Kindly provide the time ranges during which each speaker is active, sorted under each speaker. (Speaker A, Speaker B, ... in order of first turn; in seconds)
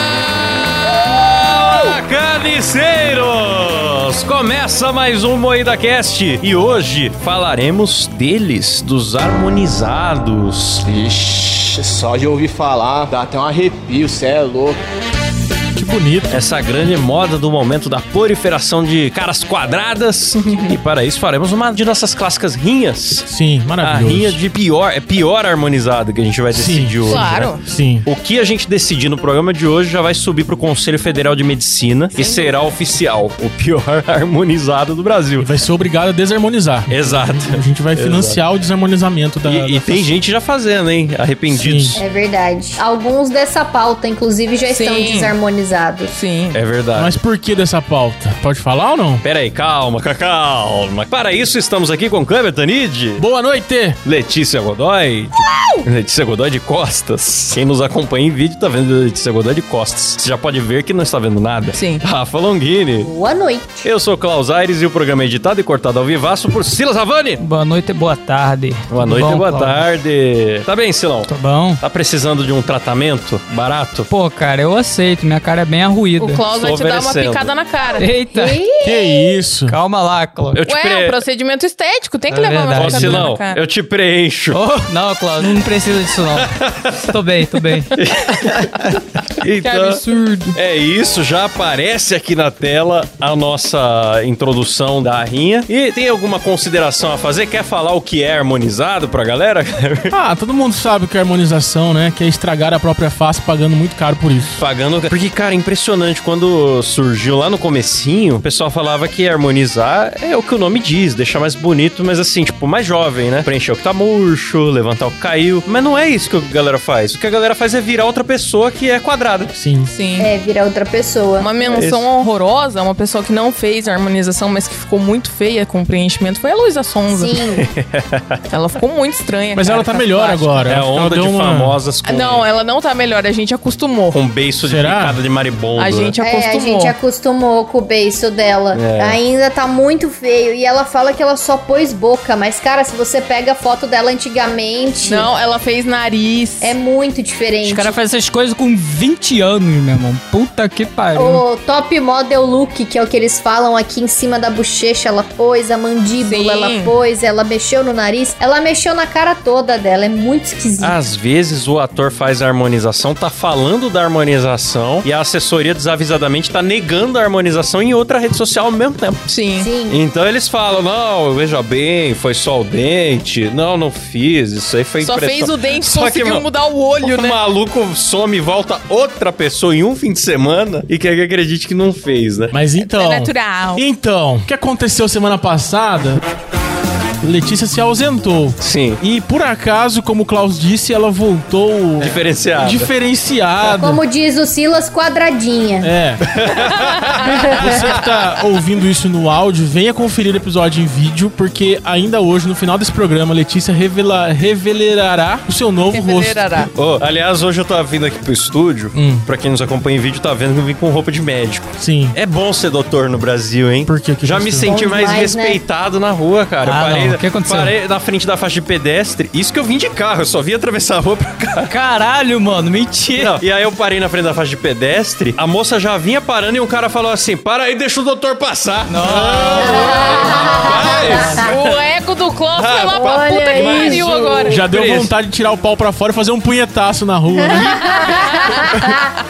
Speaker A: 0.9-10.8, 16.3-23.3, 23.8-35.5, 36.9-38.4, 39.4-42.0, 46.5-47.2, 49.2-53.2, 54.0-63.1, 63.8-67.4, 68.9-71.3, 71.8-74.1, 76.5-77.5, 80.5-81.2, 82.8-84.6, 86.3-87.1, 88.0-90.0, 90.5-100.1, 104.5-119.5, 121.7-122.1, 127.5-128.4, 130.7-132.4, 134.1-136.1, 138.7-139.2, 160.8-169.3, 169.9-176.4, 177.0-182.6, 188.6-189.0, 192.0-192.9, 196.2-197.9, 206.7-221.7, 223.2-231.7, 232.6-235.1, 237.5-238.8
Speaker B: 10.8-14.8
Speaker C: 15.7-16.4, 23.3-24.4, 26.5-28.1, 35.4-40.1, 41.5-42.0, 46.9-49.2, 53.2-54.0, 78.8-79.8, 100.1-104.6, 119.5-119.9, 129.5-131.8, 134.6-135.2, 182.5-186.2, 187.2-194.0, 195.8-196.2, 197.2-206.5, 208.9-209.3, 211.8-212.2, 213.8-214.7, 234.4-237.7
Speaker D: 20.3-20.8, 27.0-27.6, 32.1-32.6, 44.7-45.3, 46.1-46.6, 61.7-62.0, 76.2-78.1, 80.7-83.6, 89.6-90.6, 119.9-120.3, 121.4-127.4, 128.5-130.8, 132.0-134.2, 135.8-136.9, 145.0-146.8, 156.2-156.9, 169.3-169.7, 175.0-177.4, 182.8-183.8, 196.6-197.2, 205.9-206.7, 231.3-234.7, 238.1-238.7
Speaker E: 42.0-46.1, 63.0-63.9, 78.3-79.3, 120.2-121.6, 127.1-127.7, 136.2-145.3, 146.6-148.0, 151.2-160.9, 169.6-170.0, 193.7-195.9, 197.5-197.9, 214.6-215.6, 229.6-231.5, 232.9-234.0, 237.4-239.1
Speaker F: 67.4-69.8, 71.2-71.8, 74.1-76.4, 78.0-78.6, 79.7-80.6, 82.3-83.3, 84.5-87.9, 147.6-151.4, 216.6-217.7, 221.6-223.4, 228.8-231.3